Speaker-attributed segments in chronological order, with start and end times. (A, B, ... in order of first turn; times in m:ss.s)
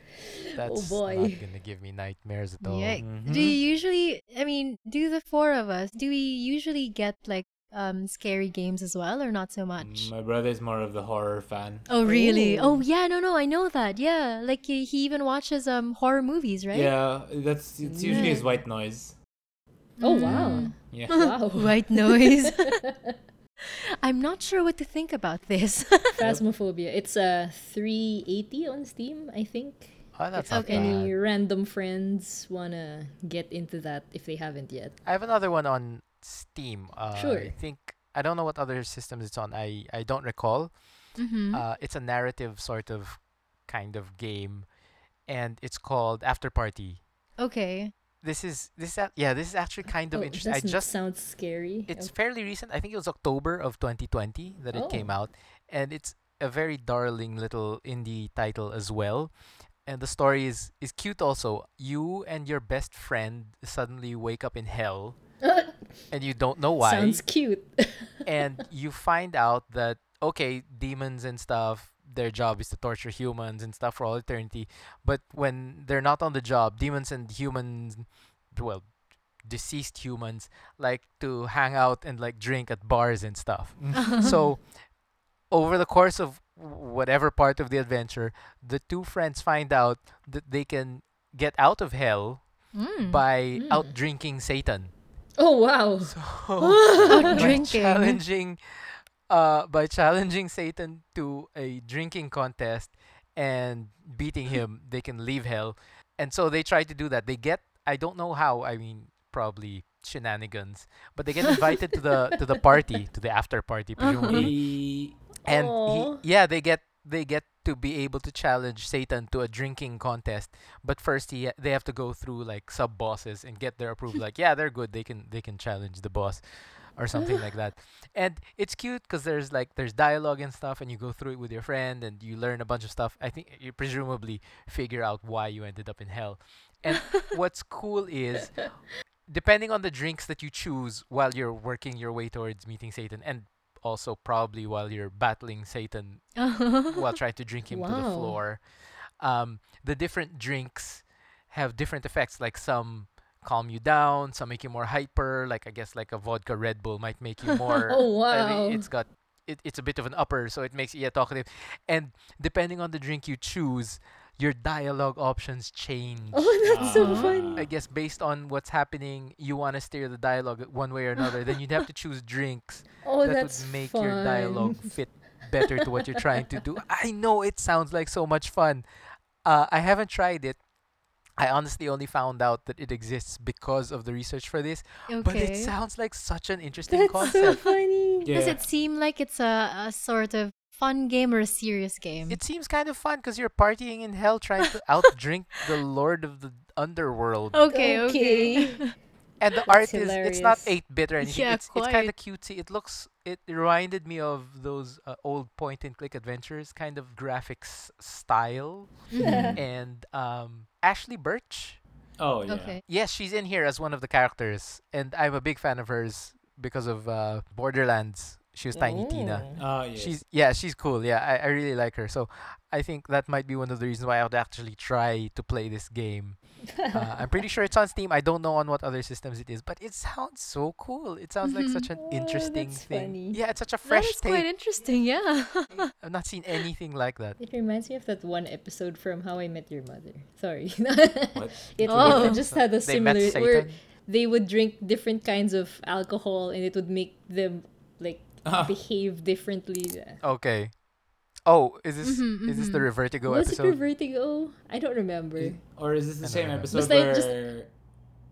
0:00.2-0:01.4 A
0:00.5-0:03.0 B
0:02.6-0:10.1 C
0:03.0-0:03.6 D
0:09.8-0:11.9 D
0:11.9-0:16.9 C
0:12.0-0:12.8 A
0:16.7-0:19.1 D
0:17.8-0:18.5 A
0:18.0-0:18.4 C
0:20.0-0:22.8 C
0:20.0-0:23.1 A
0:20.2-0:21.3 D
0:23.6-0:26.2 C
0:26.1-0:35.0 A
0:30.1-0:31.1 B
0:30.5-0:31.0 C
0:35.0-0:40.7 B
0:37.1-0:37.6 A
0:41.2-0:41.6 C
0:41.5-0:44.6 B
0:45.3-0:47.0 B
0:47.4-0:47.9 C
0:48.2-0:50.9 B
0:50.1-0:52.1 A
0:51.9-0:59.3 B
0:54.7-0:55.1 A
0:59.9-1:05.2 B
1:05.4-1:05.7 A
1:06.1-1:07.2 B
1:06.8-1:08.1 A
1:08.2-1:18.9 B
1:19.4-1:24.6 B
1:23.8-1:24.3 D
1:24.0-1:24.3 C
1:25.5-1:32.4 B
1:32.7-1:33.2 C
1:33.0-1:34.9 B
1:33.6-1:33.9 A
1:35.4-1:37.5 A
1:36.0-1:38.6 B
1:37.1-1:38.2 C
1:39.3-1:54.6 B
1:54.0-1:54.5 C
1:54.3-1:55.1 D
1:55.4-1:56.2 A
1:55.5-2:18.6 B
2:19.3-2:26.3 B
2:26.4-2:27.1 C
2:26.9-2:28.6 B
2:27.7-2:28.4 A
2:29.2-2:58.8 B
2:37.9-2:38.9 A
2:46.3-2:47.7 A
2:46.6-2:47.7 D
2:46.9-2:47.3 C
2:53.0-2:54.9 A
2:59.4-3:00.6 B
3:01.4-3:07.6 B
3:05.1-3:05.7 C
3:06.9-3:08.4 A
3:08.2-3:08.6 D
3:08.3-3:12.4 C
3:12.3-3:17.7 B
3:17.5-3:18.9 C
3:17.7-3:18.9 A
3:19.4-3:31.8 B
3:19.6-3:20.8 A
3:21.2-3:22.1 C
3:29.1-3:29.5 C
3:29.2-3:29.6 A
3:29.2-3:29.6 D
3:32.2-3:32.8 D
3:32.5-3:32.8 C
3:32.9-3:54.5 B
3:38.7-3:39.6 A
3:39.6-3:40.2 D
3:46.7-3:47.3 A
3:51.4-3:51.9 C
3:52.0-3:53.4 A
3:53.8-3:55.9 C
3:56.0-3:57.4 B
3:57.4-4:10.2 A
4:01.3-4:02.4 D
4:01.9-4:02.4 C
4:02.3-4:03.8 B
4:08.4-4:08.8 D
4:10.2-4:10.7 B
4:11.5-4:13.8 B
4:12.0-4:12.9 C
4:13.3-4:15.6 A
4:15.4-4:17.7 D
4:16.2-4:16.9 B
4:16.7-4:17.3 A